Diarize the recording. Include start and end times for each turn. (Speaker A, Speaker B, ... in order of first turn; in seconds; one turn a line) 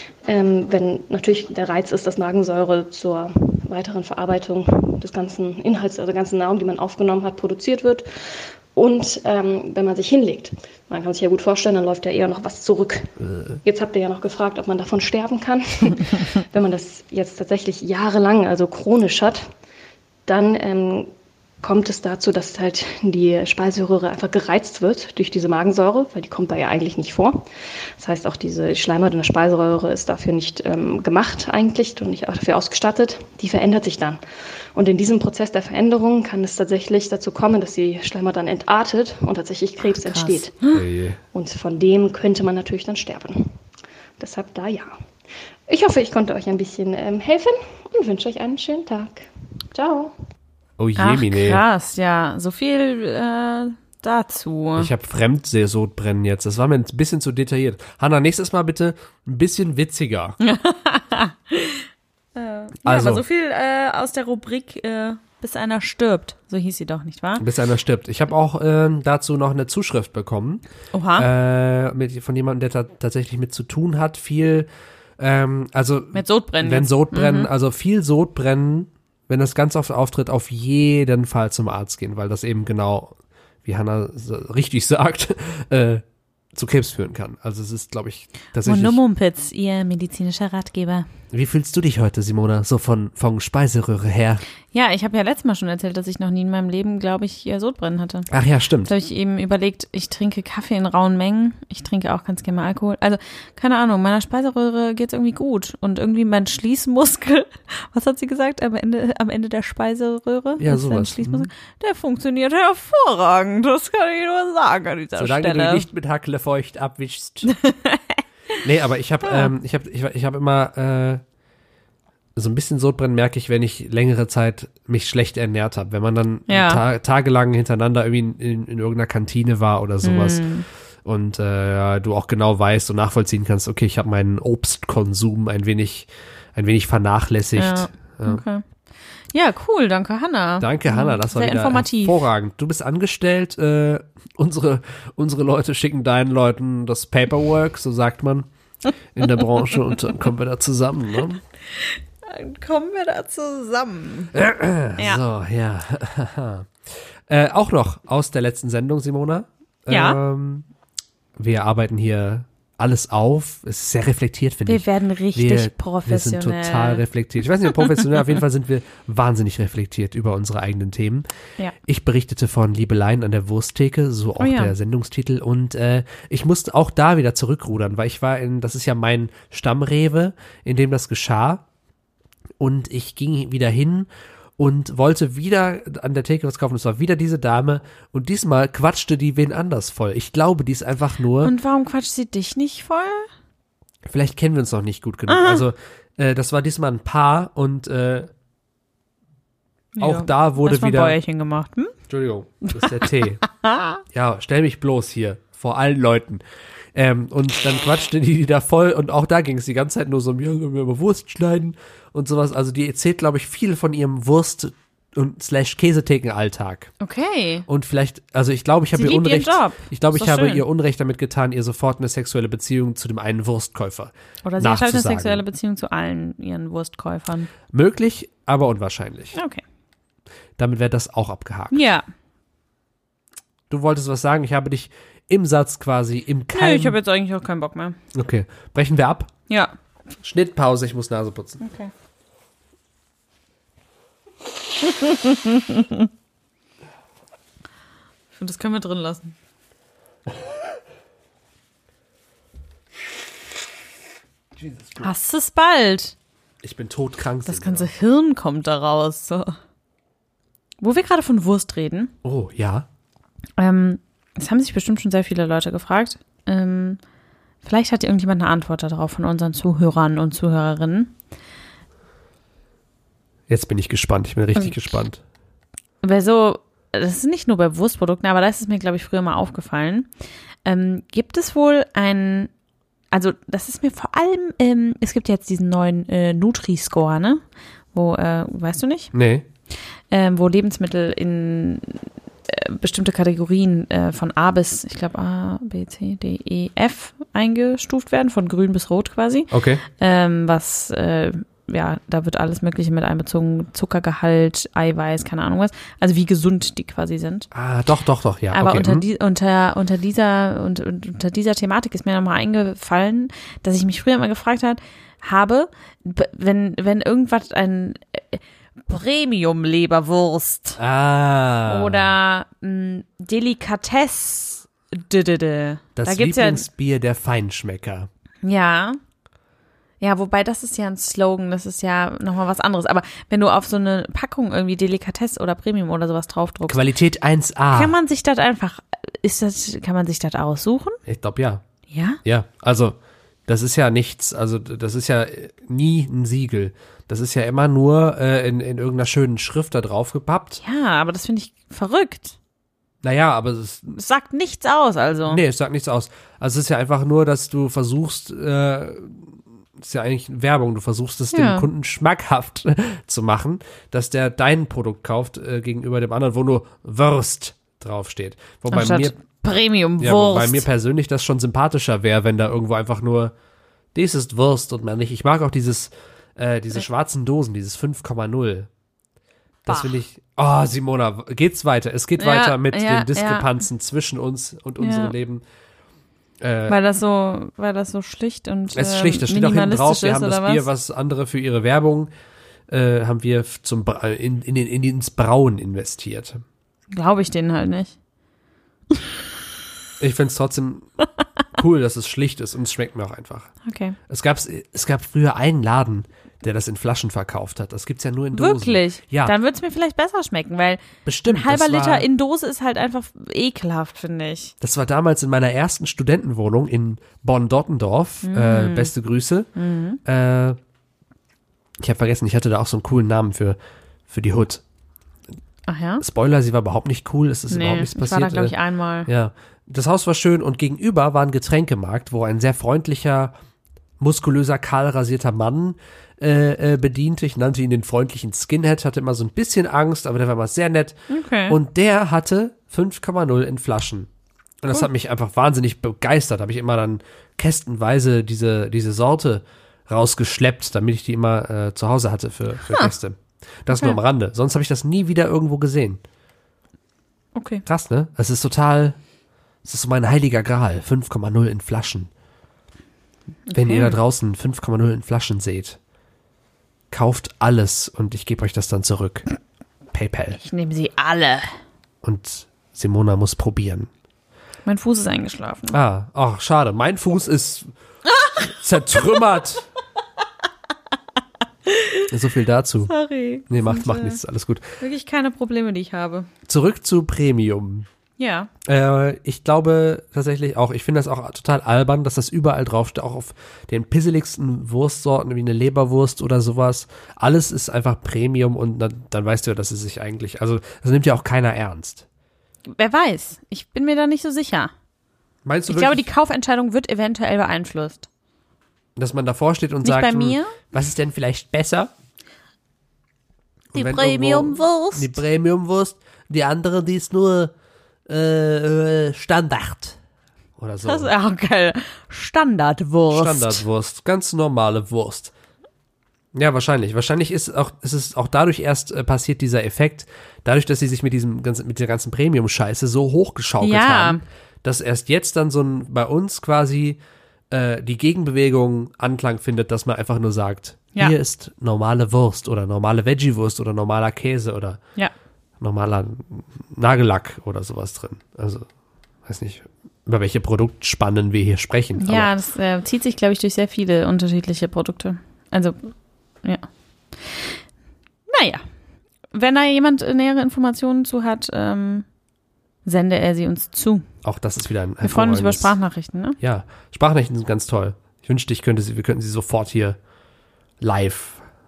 Speaker A: 0.2-8.1
Speaker A: 8.7-19.5
Speaker A: 20.3-21.1
Speaker A: 21.6-34.2
Speaker A: 34.7-40.5
Speaker B: 39.8-40.8
Speaker C: 40.7-41.2
Speaker A: 41.3-43.5
Speaker A: 44.2-45.0
Speaker A: 45.7-50.1
Speaker C: 50.8-51.6
Speaker B: 51.0-54.9
Speaker C: 54.8-60.4
Speaker B: 60.4-67.4
Speaker C: 62.8-63.2
Speaker C: 67.4-70.6
Speaker B: 70.9-71.3
Speaker C: 71.2-74.7
Speaker C: 75.2-89.0
Speaker B: 76.1-77.5
Speaker B: 88.6-91.1
Speaker C: 91.3-94.4
Speaker B: 94.7-98.3
Speaker C: 98.3-98.9
Speaker B: 98.8-115.9
Speaker C: 110.6-111.5
Speaker C: 115.2-117.6
Speaker B: 117.5-118.5
Speaker C: 118.6-121.2
Speaker B: 119.2-119.5
Speaker C: 122.3-130.4
Speaker B: 126.5-126.8
Speaker B: 130.0-130.6
Speaker C: 131.0-138.4
Speaker B: 137.6-138.6
Speaker B: 139.3-142.2
Speaker C: 140.6-148.5
Speaker C: 149.1-151.4
Speaker B: 151.7-154.3
Speaker C: 154.3-156.7
Speaker B: 155.0-155.2
Speaker C: 157.3-160.7
Speaker B: 159.9-160.2
Speaker C: 161.4-171.2
Speaker B: 164.7-167.0
Speaker C: 171.8-181.6
Speaker B: 174.4-174.7
Speaker C: 182.6-191.5
Speaker B: 191.4-193.3
Speaker C: 194.1-198.3
Speaker B: 195.3-195.6
Speaker B: 199.9-201.9
Speaker C: 200.0-201.2
Speaker C: 202.1-203.4
Speaker B: 202.7-204.0
Speaker C: 204.1-206.4
Speaker C: 206.9-216.9
Speaker B: 217.0-217.7
Speaker C: 217.7-225.4
Speaker B: 218.9-220.6
Speaker B: 224.4-227.5
Speaker C: 227.7-229.4
Speaker B: 229.3-229.6
Speaker C: 230.6-231.8
Speaker B: 231.7-232.0
Speaker C: 233.7-237.0
Speaker B: 236.5-238.0
Speaker C: 238.1-239.3
Speaker B: 239.5-239.7
Speaker C: 240.2-241.6
Speaker B: 241.6-241.9
Speaker B: 244.8-246.1
Speaker B: 248.3-249.3
Speaker C: 254.6-255.1
Speaker B: 255.0-256.1
Speaker C: 256.6-257.9
Speaker B: 257.4-259.5
Speaker B: 260.8-262.1
Speaker C: 262.2-262.9
Speaker B: 263.6-267.0
Speaker B: 267.6-271.1
Speaker C: 273.5-275.2
Speaker B: 276.0-280.1
Speaker B: 280.6-282.5
Speaker B: 283.1-287.4
Speaker B: 287.9-289.1
Speaker C: 289.1-289.4
Speaker B: 290.1-307.5
Speaker C: 299.5-299.8
Speaker C: 307.5-309.0
Speaker B: 308.5-320.8
Speaker C: 320.8-322.1
Speaker B: 321.7-326.6
Speaker C: 325.9-328.1
Speaker B: 328.4-329.0
Speaker B: 330.0-336.9
Speaker C: 336.7-337.9
Speaker B: 337.7-341.0
Speaker C: 341.1-341.6
Speaker B: 341.9-342.2
Speaker C: 342.2-342.9
Speaker C: 343.5-350.6
Speaker B: 350.6-352.4
Speaker C: 353.0-354.0
Speaker B: 354.0-355.4
Speaker C: 355.2-369.2
Speaker B: 361.3-361.7
Speaker B: 368.7-370.6
Speaker C: 370.0-373.3
Speaker C: 373.9-378.7
Speaker B: 379.6-380.0
Speaker C: 379.6-385.4
Speaker B: 382.2-383.6
Speaker B: 384.8-385.1
Speaker C: 386.4-386.8
Speaker B: 386.7-390.6
Speaker C: 388.7-392.1
Speaker C: 392.7-396.4
Speaker B: 396.9-397.9
Speaker C: 400.0-400.9
Speaker C: 401.5-403.5
Speaker B: 403.6-404.0
Speaker C: 404.1-409.3
Speaker B: 408.3-414.5
Speaker C: 411.0-412.1
Speaker C: 414.6-419.5
Speaker B: 418.2-418.9
Speaker B: 419.5-420.0
Speaker C: 420.0-420.6
Speaker C: 421.8-424.6
Speaker B: 425.7-426.0
Speaker C: 426.0-428.5
Speaker B: 427.5-429.1
Speaker C: 429.1-433.3
Speaker C: 434.0-444.1
Speaker B: 441.1-441.6
Speaker C: 444.6-456.0
Speaker B: 457.3-457.6
Speaker C: 457.6-459.0
Speaker C: 459.6-462.1
Speaker B: 463.5-463.9
Speaker C: 463.5-465.8
Speaker C: 466.9-469.3
Speaker C: 469.9-470.4
Speaker B: 470.4-471.5
Speaker C: 472.0-473.9
Speaker B: 474.6-475.8
Speaker C: 475.7-477.7
Speaker C: 478.4-479.7
Speaker B: 481.6-482.1
Speaker C: 482.1-482.9
Speaker B: 482.9-484.2
Speaker C: 483.5-484.8
Speaker B: 484.8-486.3
Speaker C: 486.5-487.9
Speaker B: 488.2-488.5
Speaker C: 488.6-502.1
Speaker B: 502.7-504.7
Speaker C: 505.4-506.1
Speaker B: 505.7-508.1
Speaker C: 509.0-511.9
Speaker B: 509.8-510.6
Speaker B: 513.7-515.2
Speaker C: 513.7-517.5
Speaker C: 518.1-520.0
Speaker C: 520.6-521.1
Speaker B: 520.8-523.6
Speaker C: 523.1-525.3
Speaker C: 526.3-537.0
Speaker B: 533.6-534.2
Speaker C: 537.5-544.8
Speaker C: 545.6-548.7
Speaker C: 549.2-552.3
Speaker B: 552.0-555.8
Speaker B: 556.4-557.6
Speaker B: 558.3-558.6
Speaker B: 559.3-562.0
Speaker B: 562.8-564.0
Speaker C: 564.2-565.7
Speaker B: 565.0-566.4
Speaker C: 566.4-570.0
Speaker C: 570.8-571.4